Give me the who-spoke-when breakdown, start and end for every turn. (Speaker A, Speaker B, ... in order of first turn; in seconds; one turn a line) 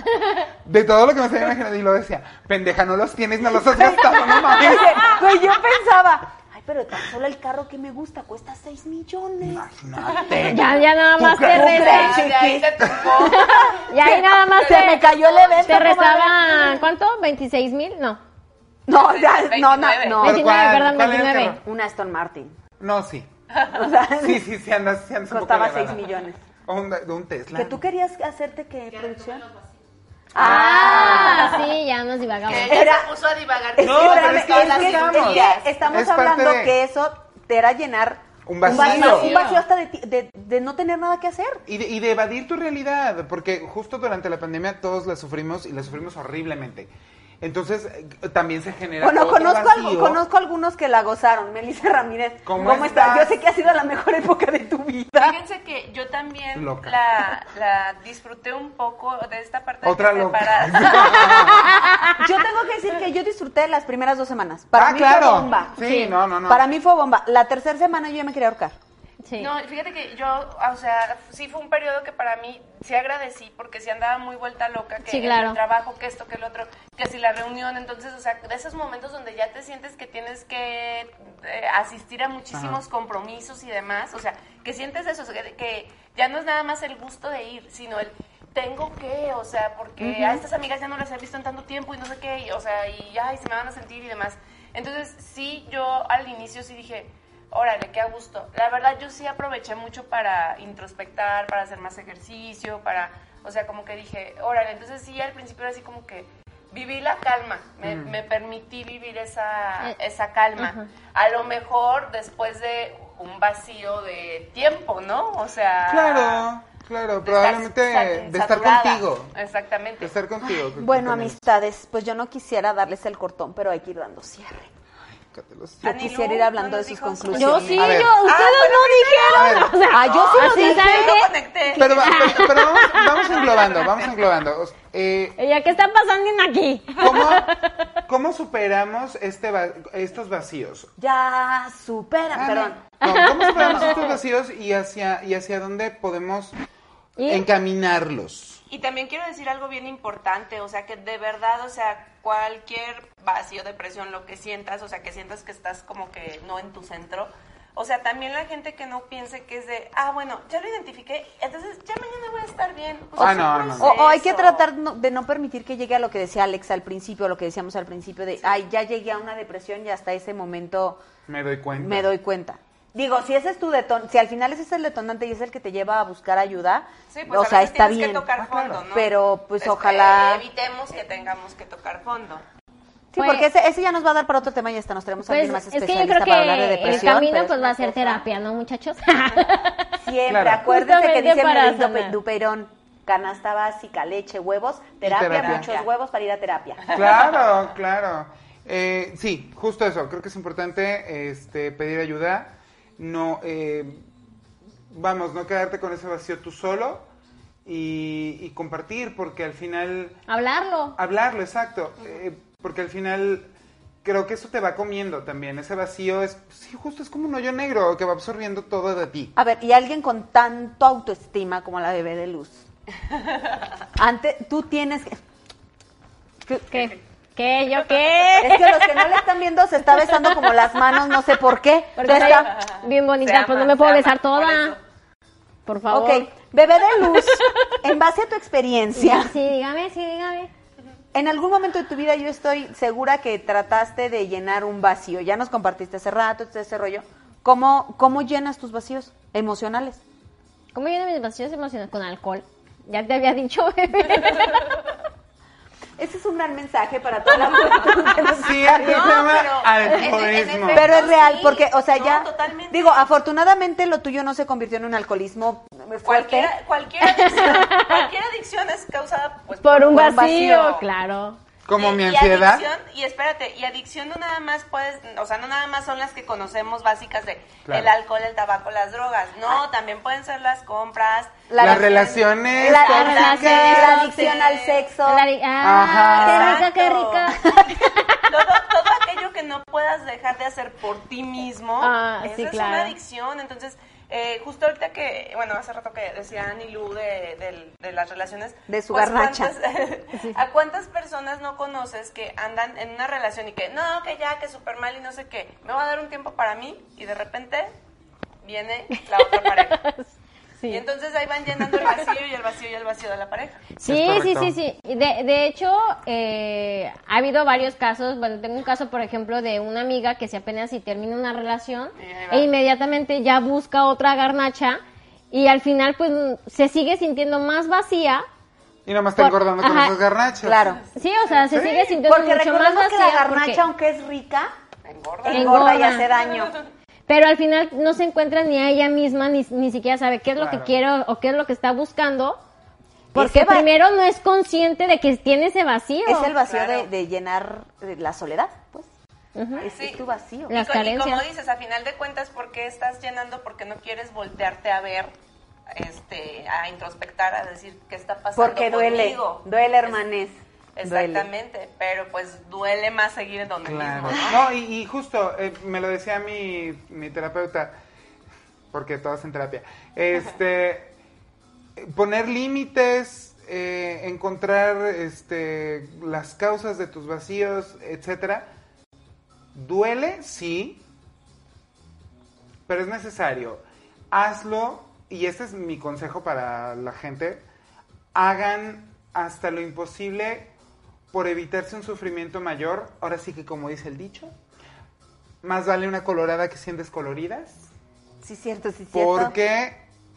Speaker A: 0.6-5.2
Speaker B: 3.6-9.6
Speaker A: 9.4-11.9
Speaker C: 10.4-12.2
Speaker B: 11.5-16.8
Speaker D: 11.7-13.8
Speaker C: 13.2-18.2
Speaker D: 14.5-16.0
Speaker B: 18.9-20.4
Speaker D: 18.9-20.3
Speaker C: 20.2-21.6
Speaker A: 20.2-21.6
Speaker B: 21.6-22.6
Speaker A: 22.8-23.3
Speaker B: 23.6-24.4
Speaker A: 24.1-27.8
Speaker B: 25.3-26.4
Speaker B: 27.5-29.5
Speaker B: 30.3-31.6
Speaker C: 30.4-32.8
Speaker A: 30.4-31.1
Speaker D: 30.4-31.6
Speaker D: 32.4-35.7
Speaker B: 32.6-33.1
Speaker B: 33.8-41.6
Speaker A: 33.8-36.8
Speaker A: 38.5-39.4
Speaker D: 38.6-39.6
Speaker A: 41.7-50.2
Speaker B: 49.0-55.4
Speaker A: 52.4-53.3
Speaker D: 55.2-61.6
Speaker A: 56.5-57.0
Speaker A: 59.8-61.7
Speaker C: 61.4-62.1
Speaker B: 62.2-65.8
Speaker A: 64.7-66.6
Speaker C: 65.8-66.2
Speaker B: 66.5-68.7
Speaker C: 69.2-69.5
Speaker D: 69.4-116.5
Speaker C: 75.0-75.6
Speaker A: 82.5-82.8
Speaker A: 107.8-108.2
Speaker C: 110.6-110.8
Speaker A: 115.9-119.3
Speaker D: 117.2-120.1
Speaker A: 120.0-121.4
Speaker B: 120.4-124.7
Speaker A: 125.3-126.0
Speaker B: 125.8-127.9
Speaker D: 125.8-132.1
Speaker C: 127.3-133.2
Speaker A: 127.8-128.1
Speaker A: 129.3-129.8
Speaker B: 129.8-131.2
Speaker A: 131.8-135.4
Speaker D: 133.2-134.1
Speaker C: 135.4-137.8
Speaker A: 137.0-137.5
Speaker A: 138.1-140.9
Speaker B: 141.0-142.8
Speaker A: 142.3-146.6
Speaker C: 143.0-144.2
Speaker C: 147.2-147.4
Speaker A: 147.2-148.6
Speaker D: 148.7-164.7
Speaker A: 163.2-163.9
Speaker B: 163.2-171.0
Speaker A: 171.3-172.1
Speaker B: 171.7-178.2
Speaker D: 177.1-182.4
Speaker A: 178.4-178.8
Speaker B: 178.9-180.4
Speaker B: 183.1-188.2
Speaker C: 183.2-183.5
Speaker C: 185.2-190.0
Speaker B: 190.0-196.9
Speaker A: 190.3-190.7
Speaker C: 190.6-192.2
Speaker A: 195.0-195.7
Speaker D: 195.2-195.9
Speaker D: 196.9-197.3
Speaker A: 196.9-204.1
Speaker A: 204.9-207.1
Speaker A: 207.6-210.2
Speaker C: 210.3-211.0
Speaker A: 210.9-213.5
Speaker A: 214.0-219.3
Speaker B: 219.3-222.6
Speaker B: 224.0-225.2
Speaker C: 226.7-229.1
Speaker B: 228.4-232.5
Speaker C: 232.0-234.8
Speaker D: 232.1-234.8
Speaker C: 235.7-236.3
Speaker B: 235.9-239.3
Speaker C: 237.1-237.7
Speaker C: 238.9-240.5
Speaker B: 241.1-250.0
Speaker C: 250.7-254.7
Speaker B: 256.0-259.2
Speaker A: 258.3-261.0
Speaker D: 258.7-263.1
Speaker B: 260.7-266.5
Speaker D: 266.0-270.8
Speaker C: 267.0-268.1
Speaker C: 269.6-271.4
Speaker B: 269.9-270.6
Speaker A: 271.6-272.7
Speaker D: 271.7-284.9
Speaker A: 277.6-277.9
Speaker B: 281.5-285.2
Speaker A: 281.6-283.8
Speaker C: 282.7-284.3
Speaker C: 285.1-288.2
Speaker A: 285.6-286.5
Speaker D: 285.8-307.7
Speaker B: 286.2-286.7
Speaker B: 287.4-287.7
Speaker C: 291.8-292.9
Speaker B: 298.7-299.5
Speaker D: 308.4-309.8
Speaker C: 308.9-310.8
Speaker D: 310.7-313.7
Speaker C: 311.6-311.9
Speaker C: 313.8-328.2
Speaker A: 313.8-314.5
Speaker D: 322.0-322.5
Speaker A: 328.9-330.6
Speaker C: 329.2-329.9
Speaker B: 330.4-330.8
Speaker C: 330.9-333.6
Speaker A: 331.5-331.9
Speaker B: 332.0-334.5
Speaker D: 334.8-336.4
Speaker B: 335.2-336.6
Speaker C: 335.3-336.1
Speaker C: 337.1-342.4
Speaker A: 340.3-340.7
Speaker B: 343.1-343.7
Speaker C: 343.1-346.3
Speaker B: 346.1-348.9
Speaker D: 346.4-346.9
Speaker C: 349.3-349.6
Speaker B: 349.6-350.5
Speaker D: 349.6-355.1
Speaker C: 350.5-351.2
Speaker D: 355.7-360.0
Speaker B: 358.4-361.3
Speaker D: 360.7-364.5
Speaker A: 363.6-367.7
Speaker A: 368.7-370.9
Speaker A: 371.8-378.5
Speaker A: 379.5-380.8
Speaker A: 382.7-387.4
Speaker A: 388.1-390.5
Speaker A: 391.1-394.3
Speaker A: 395.4-397.7
Speaker B: 398.2-399.3
Speaker A: 398.9-399.8